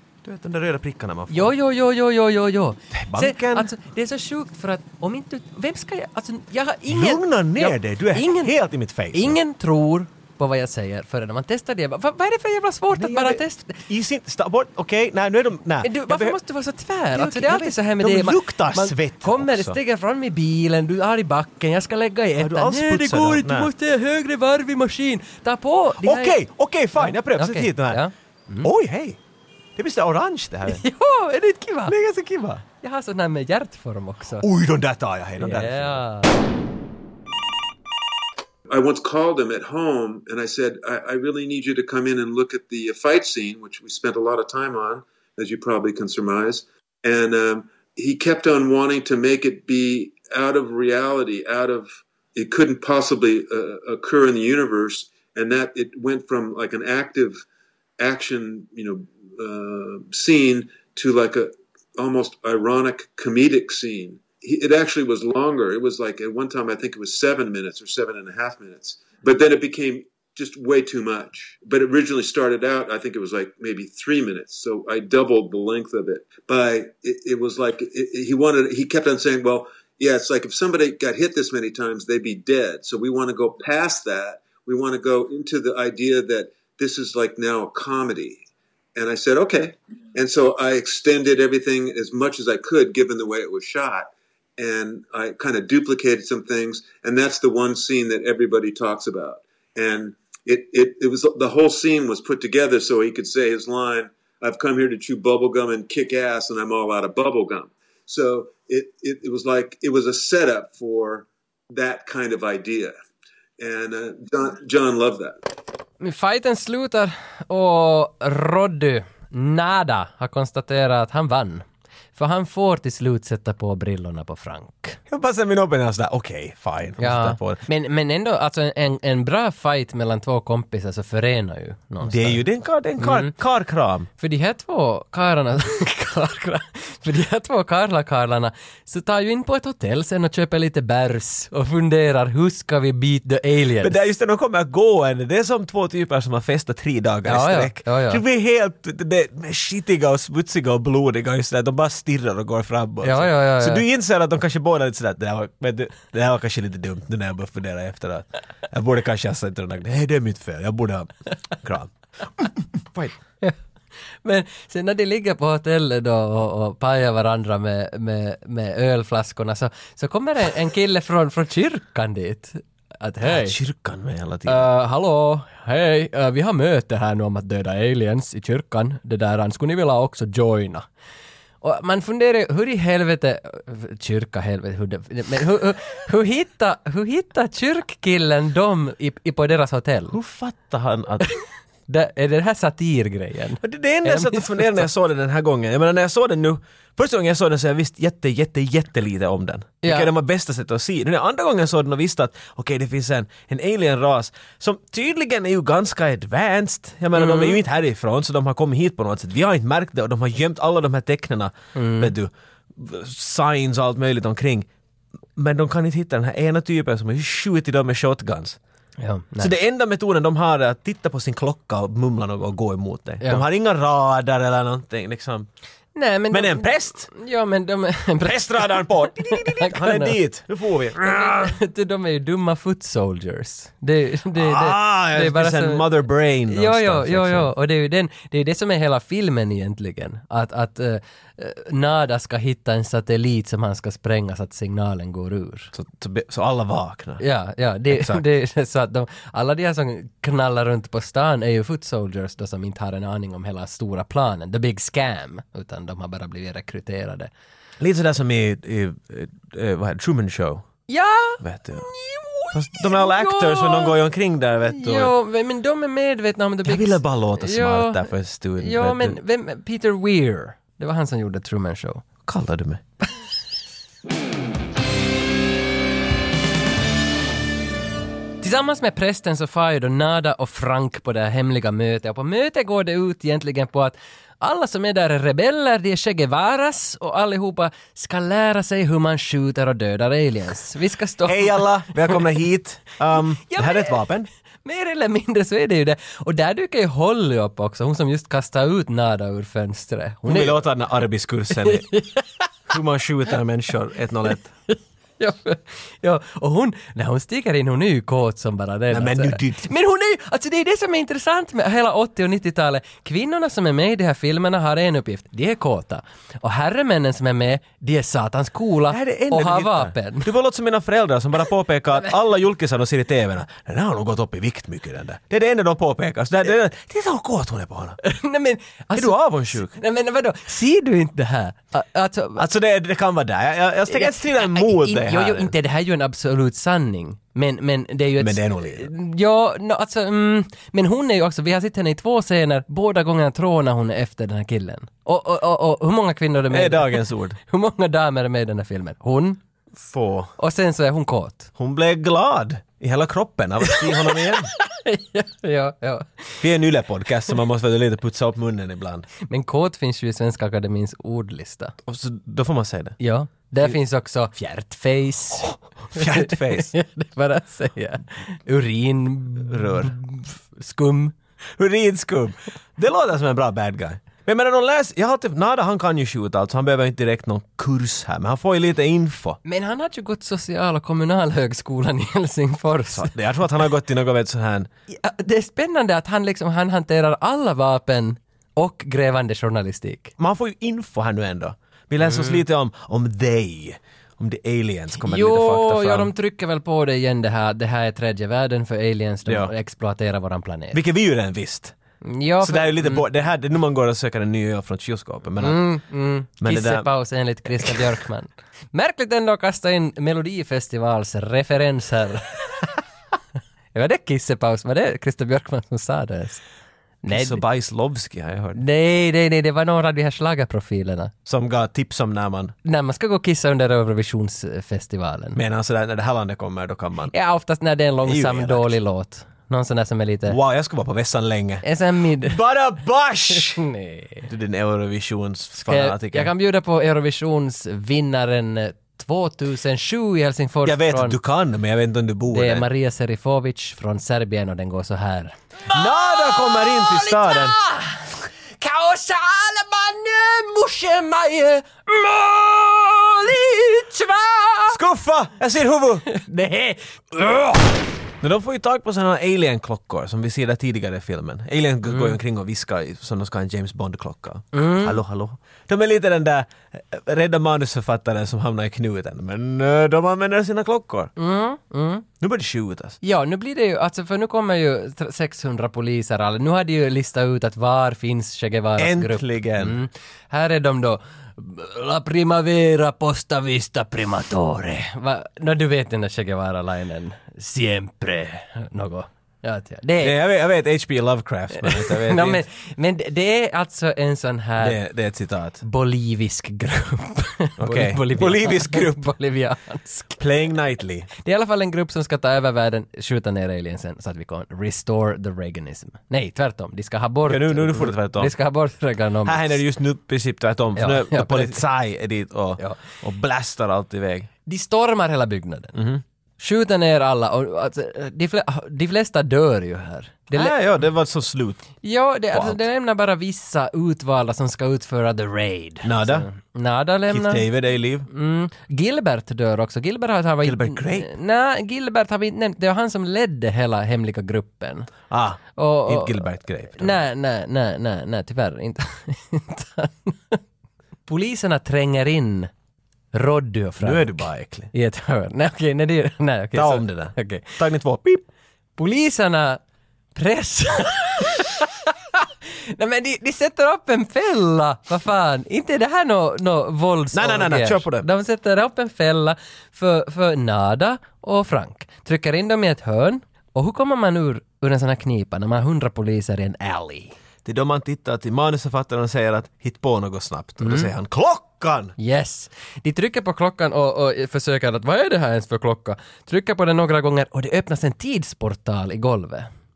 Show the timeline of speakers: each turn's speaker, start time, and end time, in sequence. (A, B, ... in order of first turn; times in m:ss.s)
0:00.2-0:01.5 A
0:01.3-0:08.5 B
0:02.9-0:03.7 A
0:06.9-0:09.4 A
0:09.1-0:13.8 B
0:12.9-0:16.4 A
0:15.8-0:26.4 B
0:17.1-0:19.8 A
0:22.4-0:23.7 A
0:26.0-0:28.0 A
0:27.0-0:28.7 B
0:28.6-0:29.2 A
0:29.8-0:30.8 A
0:30.6-0:32.0 B
0:31.9-0:32.6 A
0:32.7-0:34.4 B
0:34.4-0:36.0 A
0:35.4-0:36.3 B
0:38.7-0:57.4 C
0:58.0-1:28.4 C
1:29.0-1:52.9 C
1:53.6-1:55.4 C
1:56.0-2:01.6 B
2:02.2-2:05.0 B
2:05.1-2:07.6 A
2:07.0-2:12.4 B
2:12.0-2:14.1 A
2:13.0-2:13.3 B
2:14.2-2:24.0 B
2:23.8-2:41.9 A
2:27.2-2:28.2 B
2:33.0-2:33.8 B
2:44.2-2:53.5 B
2:53.2-2:54.7 A
2:54.4-3:00.9 B
3:01.6-3:10.2 B
3:10.1-3:11.3 A
3:11.9-3:14.8 B
3:13.6-3:34.7 A
3:19.8-3:20.1 B
3:27.1-3:27.6 B
3:31.7-3:32.1 B
3:35.4-3:38.6 A
3:39.0-3:39.5 B
3:39.4-3:45.5 A
3:45.9-3:50.2 B
3:46.3-3:47.1 A
3:48.2-3:51.6 A
3:51.0-3:55.9 B
3:54.3-3:57.5 A
3:56.5-4:05.7 B
4:05.7-4:07.2 A
4:07.2-4:17.3 B
4:07.9-4:08.2 A
4:17.8-4:20.7 A
4:20.9-4:24.0 B
4:21.4-4:21.9 A
4:22.5-4:25.1 A
4:24.7-4:28.0 B
4:26.6-4:29.2 A
4:28.6-4:32.0 B
4:32.2-4:32.8 A
4:38.4-4:52.2 B
4:51.2-4:54.3 A
4:53.4-4:54.0 B
4:54.6-5:00.6 B
5:00.2-5:01.9 A
5:01.5-5:02.5 B
5:02.7-5:04.5 A
5:04.7-5:20.3 B
5:08.9-5:09.7 A
5:18.9-5:28.0 A
5:28.0-5:32.4 B
5:28.9-5:29.8 A
5:32.4-5:35.5 A
5:33.9-5:49.4 B
5:38.2-5:38.9 A
5:46.5-5:47.4 A
5:49.8-5:50.3 A
5:50.4-5:51.5 B
5:51.6-5:54.5 A
5:53.6-5:56.4 B
5:56.4-5:59.1 A
5:59.2-6:01.8 B
6:01.8-6:03.0 A
6:03.0-6:11.1 B
6:05.9-6:06.7 A
6:09.4-6:09.9 A
6:11.6-6:19.4 A
6:19.4-6:23.1 B
6:22.9-6:24.7 A
6:24.9-6:30.1 B
6:30.2-6:36.1 A
6:32.0-6:32.4 B
6:35.0-6:40.8 B
6:39.2-6:39.5 A
6:40.7-6:41.8 A
6:42.0-6:43.0 B
6:42.4-6:45.6 A
6:45.4-6:52.8 B
6:46.4-6:46.9 A
6:47.5-6:47.8 A
6:53.7-6:56.4 B
6:57.0-6:57.4 B
6:57.1-6:58.6 A
6:58.5-7:01.1 B
7:01.2-7:02.5 A
7:02.6-7:05.4 B
7:05.3-7:07.1 A
7:07.1-7:10.4 B
7:08.0-7:08.7 A
7:10.3-7:11.6 A
7:11.6-7:12.4 B
7:12.2-7:13.6 A
7:13.3-7:14.3 B
7:14.3-7:16.3 A
7:15.6-7:21.2 B
7:20.6-7:22.6 A
7:22.3-7:34.8 B
7:25.7-7:27.6 A
7:34.7-7:36.1 A
7:36.0-7:37.8 B
7:38.2-7:51.1 A
7:41.8-7:42.2 B
7:44.5-7:45.0 B
7:51.2-7:52.0 B
7:52.2-7:53.0 A
7:53.0-8:10.2 B
7:58.8-7:59.8 A
8:10.0-8:12.4 A
8:11.6-8:14.8 B
8:14.6-8:15.6 A
8:15.6-8:20.2 B
8:17.6-8:19.0 A
8:20.2-8:21.1 A
8:21.1-8:29.6 B
8:27.3-8:28.3 A
8:29.2-8:34.3 A
8:30.8-8:31.6 B
8:34.4-8:35.7 B
8:35.7-8:36.0 A
8:36.4-8:40.5 B
8:40.3-8:41.6 A
8:41.8-8:47.4 B
8:42.3-8:42.6 A
8:45.8-8:46.3 A
8:47.1-8:48.1 A
8:48.1-8:54.9 B
8:50.4-8:51.1 A
8:55.1-8:57.0 A
8:55.5-9:00.4 B
9:01.0-9:02.5 B
9:03.1-9:07.6 B
9:03.8-9:04.7 A
9:06.5-9:08.2 A
9:08.8-9:09.6 B
9:10.1-9:27.1 B
9:17.1-9:18.0 A
9:27.4-9:31.9 A
9:30.6-9:30.9 B
9:32.0-9:39.5 B